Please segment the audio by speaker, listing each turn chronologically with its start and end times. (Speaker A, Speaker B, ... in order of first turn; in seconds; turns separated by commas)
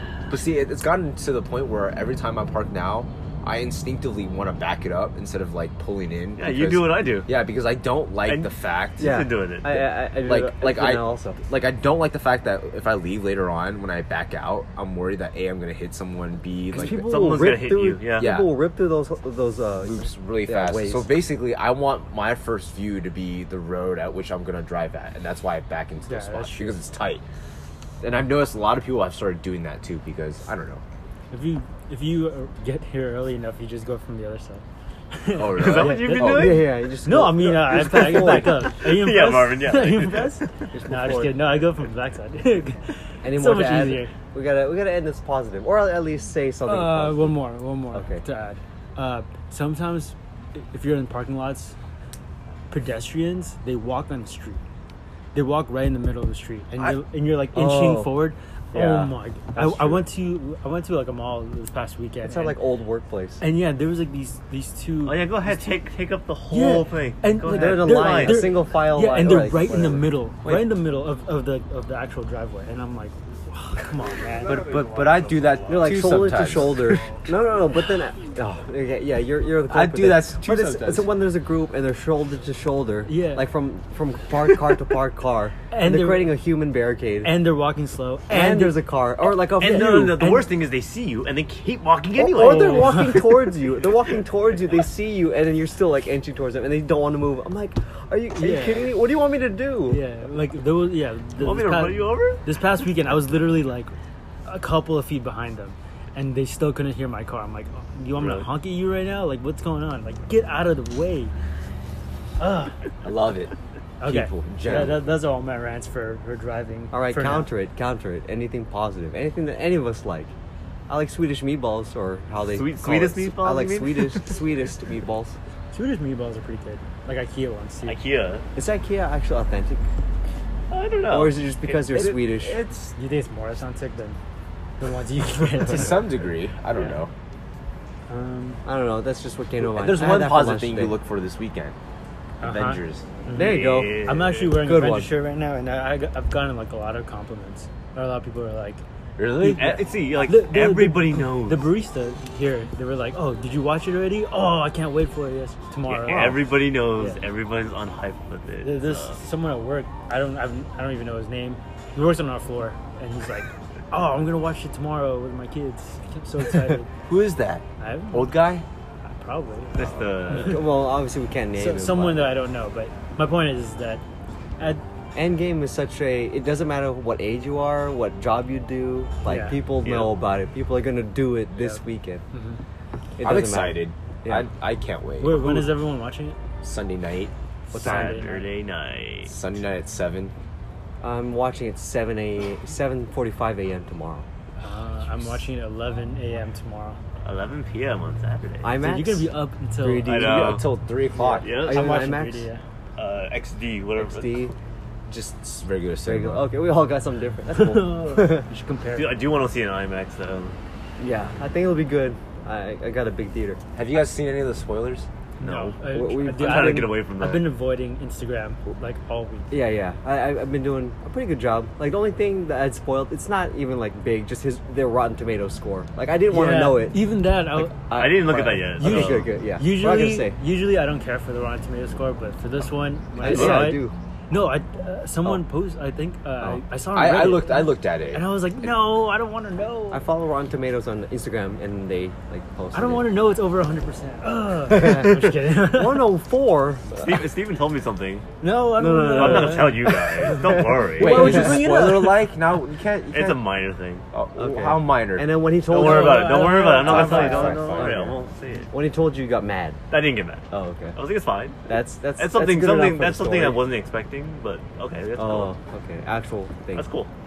Speaker A: 0.3-9.2, Speaker B: 6.4-7.3, Speaker B: 8.3-9.9, Speaker C: 9.0-11.4, Speaker A: 10.2-17.0, Speaker C: 16.7-21.1, Speaker B: 16.8-18.3, Speaker A: 18.2-18.6, Speaker A: 19.8-27.2, Speaker D: 26.1-26.8, Speaker A: 28.0-30.8, Speaker D: 31.3-44.1, Speaker A: 35.3-36.7, Speaker B: 35.5-36.8, Speaker C: 36.2-38.7, Speaker B: 37.9-40.5, Speaker C: 40.7-41.3, Speaker C: 43.2-47.4, Speaker D: 46.7-51.8, Speaker C: 47.9-48.2, Speaker D: 52.7-54.6, Speaker D: 55.3-62.6, Speaker C: 57.5-58.1, Speaker C: 58.7-60.0, Speaker C: 62.2-63.4, Speaker D: 63.4-65.8, Speaker B: 65.0-68.6, Speaker D: 66.5-74.7, Speaker C: 67.5-70.1, Speaker A: 74.4-77.1, Speaker B: 74.7-76.0, Speaker C: 75.7-87.4, Speaker A: 79.7-81.2, Speaker D: 83.1-83.5, Speaker D: 85.7-86.4, Speaker D: 87.2-88.8, Speaker C: 88.3-90.2, Speaker B: 89.4-93.5, Speaker D: 89.7-90.5, Speaker C: 92.2-100.0, Speaker D: 92.4-93.3, Speaker D: 98.4-98.9, Speaker D: 99.9-103.9, Speaker B: 101.4-102.4, Speaker D: 104.5-111.3, Speaker B: 108.2-108.5, Speaker D: 112.4-112.8, Speaker A: 113.0-113.5, Speaker D: 114.0-117.5, Speaker A: 114.0-115.0, Speaker C: 114.6-115.0, Speaker C: 116.9-120.3, Speaker C: 120.9-125.4, Speaker B: 122.5-124.7, Speaker D: 125.7-128.0, Speaker B: 127.9-128.4, Speaker C: 128.6-129.8, Speaker B: 130.7-132.5, Speaker C: 131.1-132.6, Speaker D: 132.9-134.2, Speaker D: 134.8-136.2, Speaker A: 135.7-137.1, Speaker D: 138.1-138.6, Speaker C: 138.7-141.0, Speaker A: 139.6-141.8, Speaker A: 142.4-143.1, Speaker D: 142.4-148.8, Speaker C: 143.3-145.1, Speaker B: 143.3-144.5, Speaker A: 149.2-149.9, Speaker D: 149.4-157.2, Speaker B: 149.4-151.7, Speaker B: 155.9-159.2, Speaker D: 158.6-166.9, Speaker A: 167.1-168.7, Speaker D: 167.8-168.4, Speaker D: 169.1-170.7, Speaker B: 169.7-170.7, Speaker C: 170.3-172.3, Speaker D: 171.6-174.0, Speaker C: 175.1-182.2, Speaker D: 179.3-179.6, Speaker B: 179.8-180.2, Speaker D: 182.3-182.6, Speaker C: 183.2-184.5, Speaker A: 183.2-185.7, Speaker D: 185.2-186.4, Speaker A: 186.6-187.3, Speaker D: 187.7-188.5, Speaker B: 187.8-189.3, Speaker C: 187.9-188.2, Speaker A: 189.3-190.3, Speaker C: 191.0-194.3, Speaker D: 194.6-197.0, Speaker A: 195.1-195.4, Speaker B: 197.2-198.8, Speaker C: 198.6-202.5, Speaker D: 198.8-200.3, Speaker B: 200.0-200.7, Speaker A: 200.2-201.5, Speaker B: 201.4-201.9, Speaker D: 201.6-202.6, Speaker B: 203.0-204.5, Speaker C: 204.0-204.6, Speaker A: 205.1-206.5, Speaker C: 206.1-208.5, Speaker D: 207.5-209.2, Speaker B: 208.9-210.6, Speaker C: 211.0-213.6, Speaker A: 213.8-215.1, Speaker B: 215.4-217.5, Speaker D: 215.4-219.5, Speaker C: 215.8-217.0, Speaker C: 219.5-230.4, Speaker D: 226.3-227.8, Speaker B: 227.9-229.3, Speaker D: 228.8-240.1, Speaker C: 233.2-233.9, Speaker A: 233.3-233.7, Speaker A: 236.9-238.7, Speaker C: 239.9-243.1, Speaker D: 242.7-246.1, Speaker C: 244.7-247.1, Speaker B: 247.0-248.3, Speaker D: 248.4-250.4, Speaker C: 248.8-252.1, Speaker B: 249.1-251.5, Speaker A: 251.0-253.5, Speaker D: 251.0-252.1, Speaker B: 253.1-254.1, Speaker A: 254.1-255.3, Speaker C: 254.4-258.2, Speaker B: 255.7-258.7, Speaker D: 255.7-257.5, Speaker A: 256.8-258.1, Speaker C: 258.7-259.8, Speaker B: 259.9-265.5, Speaker C: 260.5-261.0, Speaker C: 261.7-263.6, Speaker C: 265.2-266.9, Speaker B: 266.8-267.1